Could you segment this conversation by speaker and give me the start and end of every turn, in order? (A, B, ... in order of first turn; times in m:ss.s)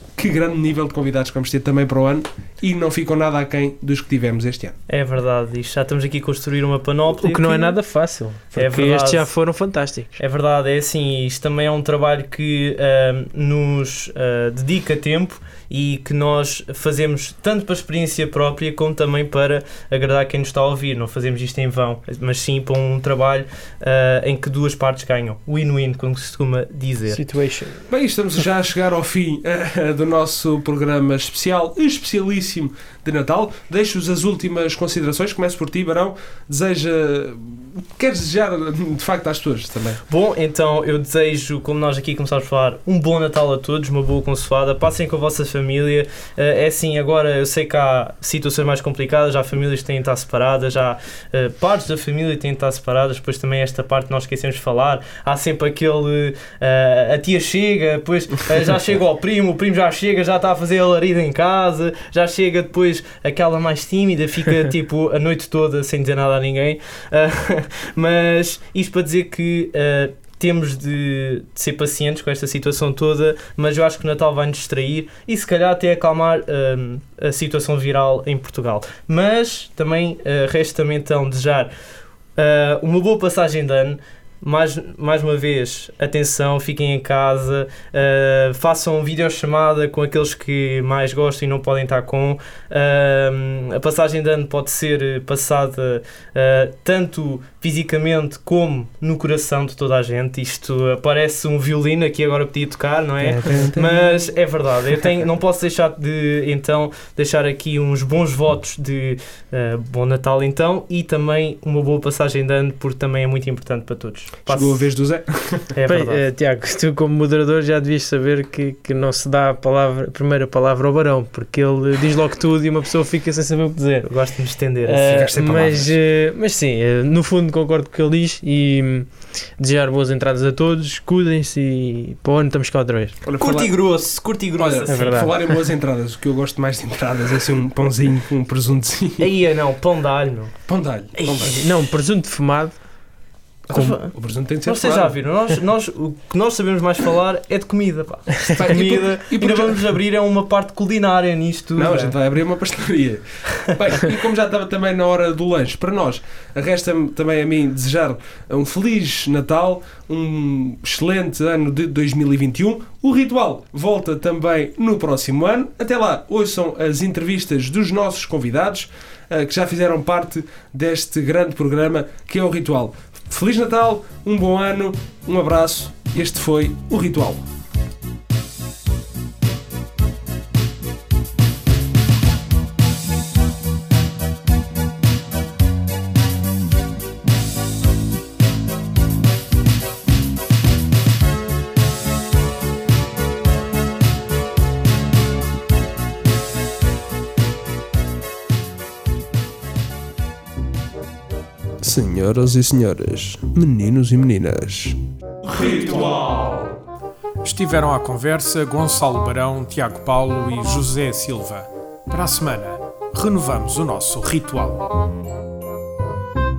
0:00.2-0:04.8 A
0:04.9-0:07.8 B
0:07.2-0:10.1 C
0:08.5-0:09.3 B
0:10.2-0:27.2 B
0:27.1-0:27.9 C
0:27.9-0:40.0 A
0:40.1-1:21.7 B
1:22.4-1:54.9 B
1:43.2-1:44.2 A
1:54.5-1:55.7 A
1:55.7-1:56.2 B
1:55.9-2:04.1 C
2:04.0-2:05.3 B
2:04.8-2:13.2 C
2:05.1-2:06.0 A
2:13.2-2:13.7 A
2:13.4-2:15.2 B
2:14.6-2:19.3 A
2:14.9-2:15.4 C
2:19.2-2:20.5 B
2:20.7-2:21.6 A
2:21.4-2:22.9 C
2:23.7-2:25.1 A
2:23.7-2:32.2 B
2:28.5-2:29.8 A
2:31.8-2:57.4 A
3:21.8-3:26.8 A
3:27.4-3:34.9 D